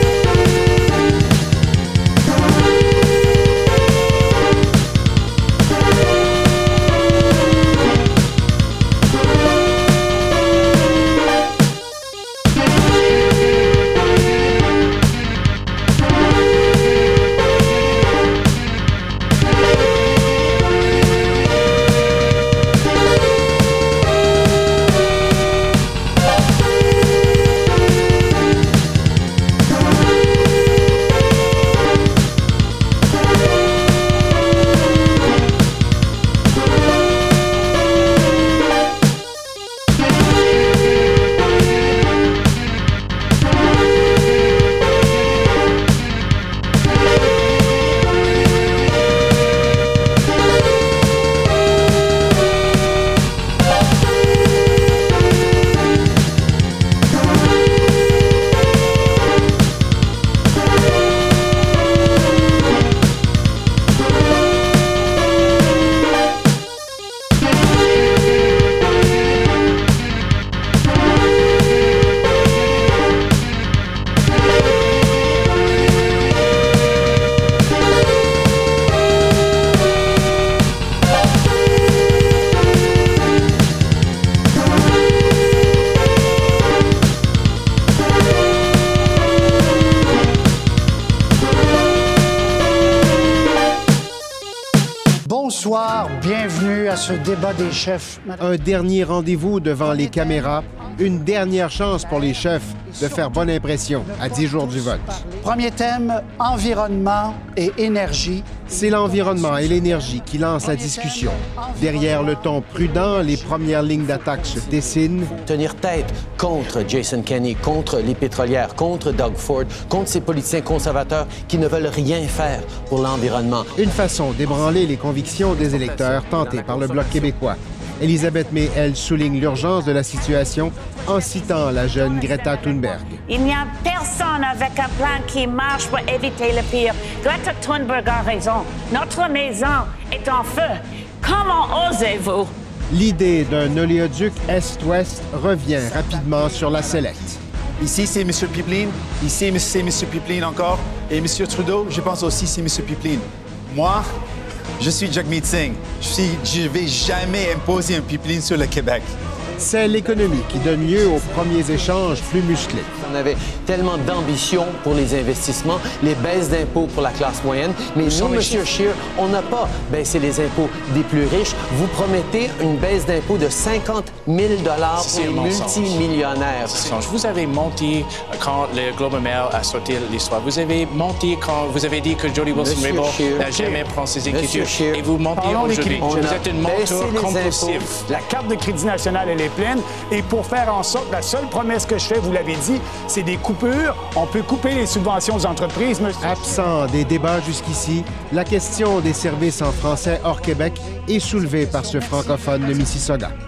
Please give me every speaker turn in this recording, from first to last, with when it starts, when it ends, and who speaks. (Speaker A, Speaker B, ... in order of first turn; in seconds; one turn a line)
Speaker A: 95.2-98.5
Speaker B: 98.4-105.2
Speaker A: 102.9-103.2
Speaker A: 104.0-109.7
Speaker B: 108.6-115.3
Speaker A: 110.6-113.5
Speaker C: 115.3-123.7
Speaker B: 123.8-133.2
Speaker D: 133.3-142.5
Speaker B: 142.9-147.4
Speaker E: 147.8-149.5
Speaker E: 151.0-152.8
Speaker E: 154.8-155.2
Speaker E: 156.0-159.0
Speaker B: 159.6-162.9
Speaker C: 162.9-177.0
Speaker F: 168.0-168.7
Speaker F: 174.9-188.1
Speaker C: 182.5-188.3
Speaker G: 188.2-196.0
Speaker B: 196.2-203.3